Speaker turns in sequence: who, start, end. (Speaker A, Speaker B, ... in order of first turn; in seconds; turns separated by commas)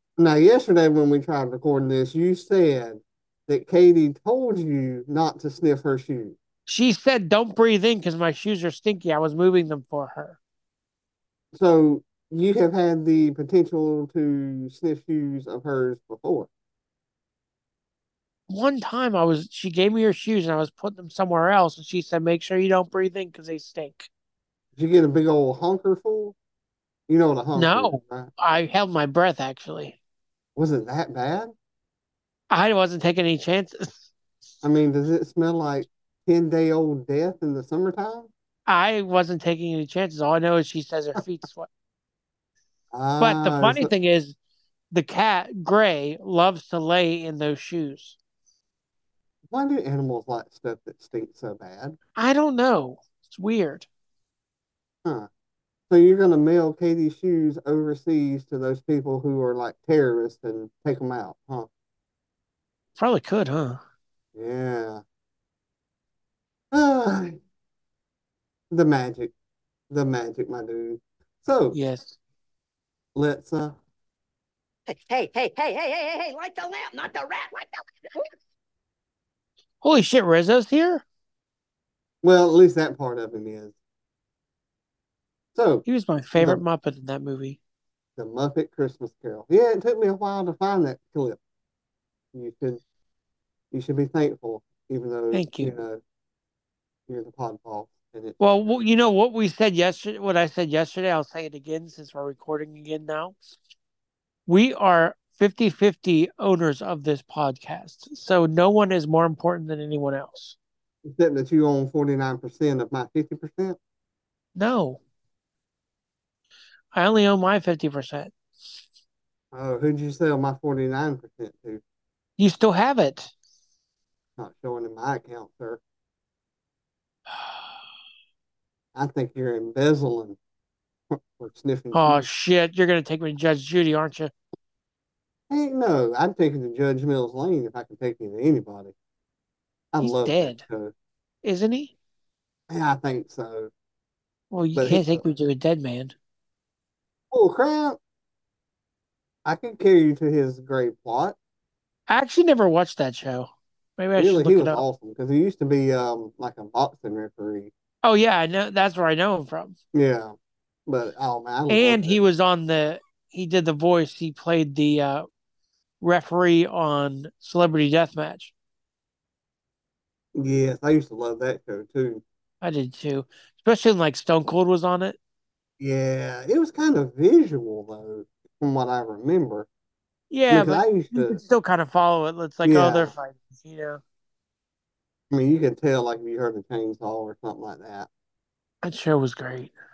Speaker A: 0.2-6.4, Speaker B: 6.7-10.4, Speaker A: 11.5-16.5, Speaker B: 18.5-24.1, Speaker A: 24.8-26.4, Speaker A: 27.1-28.3, Speaker B: 27.5-30.0, Speaker A: 30.6-31.5, Speaker B: 32.5-34.1, Speaker A: 34.6-38.3, Speaker B: 38.7-41.7, Speaker A: 42.9-43.9, Speaker B: 43.2-44.3, Speaker B: 44.9-48.2, Speaker A: 49.5-52.0, Speaker B: 52.1-53.9, Speaker A: 55.9-61.7, Speaker B: 63.0-63.8, Speaker A: 64.3-65.0, Speaker A: 66.7-67.4, Speaker A: 68.7-69.3, Speaker A: 69.9-71.8, Speaker B: 71.7-72.2, Speaker A: 73.1-73.8, Speaker C: 74.9-78.3, Speaker B: 79.8-81.0, Speaker A: 82.2-83.7, Speaker A: 85.5-85.8, Speaker B: 85.8-87.6, Speaker A: 86.4-86.6, Speaker A: 88.2-91.4, Speaker A: 92.3-92.8, Speaker A: 93.7-96.0, Speaker B: 95.3-95.7, Speaker A: 97.1-98.4, Speaker B: 98.4-103.5, Speaker B: 104.5-110.5, Speaker A: 111.0-113.8, Speaker B: 114.5-115.0, Speaker B: 116.9-118.8, Speaker A: 119.5-121.8, Speaker B: 122.4-123.3, Speaker A: 124.4-125.8, Speaker A: 128.9-130.4, Speaker A: 131.1-132.2, Speaker B: 131.9-134.3, Speaker A: 135.5-138.9, Speaker A: 139.9-140.9, Speaker B: 140.0-140.6, Speaker B: 141.4-141.9, Speaker A: 142.7-143.7, Speaker B: 144.5-146.1, Speaker A: 144.7-145.2, Speaker A: 147.3-148.0, Speaker A: 149.4-151.3, Speaker B: 152.1-154.8, Speaker A: 154.2-157.7, Speaker B: 158.0-159.8, Speaker A: 159.9-160.3, Speaker A: 160.9-162.2, Speaker B: 161.7-165.3, Speaker B: 166.0-168.5, Speaker A: 170.3-172.2, Speaker B: 172.6-175.2, Speaker A: 175.8-179.7, Speaker B: 180.3-184.0, Speaker A: 180.5-181.4, Speaker A: 182.6-183.1, Speaker A: 185.3-188.1, Speaker B: 188.8-189.7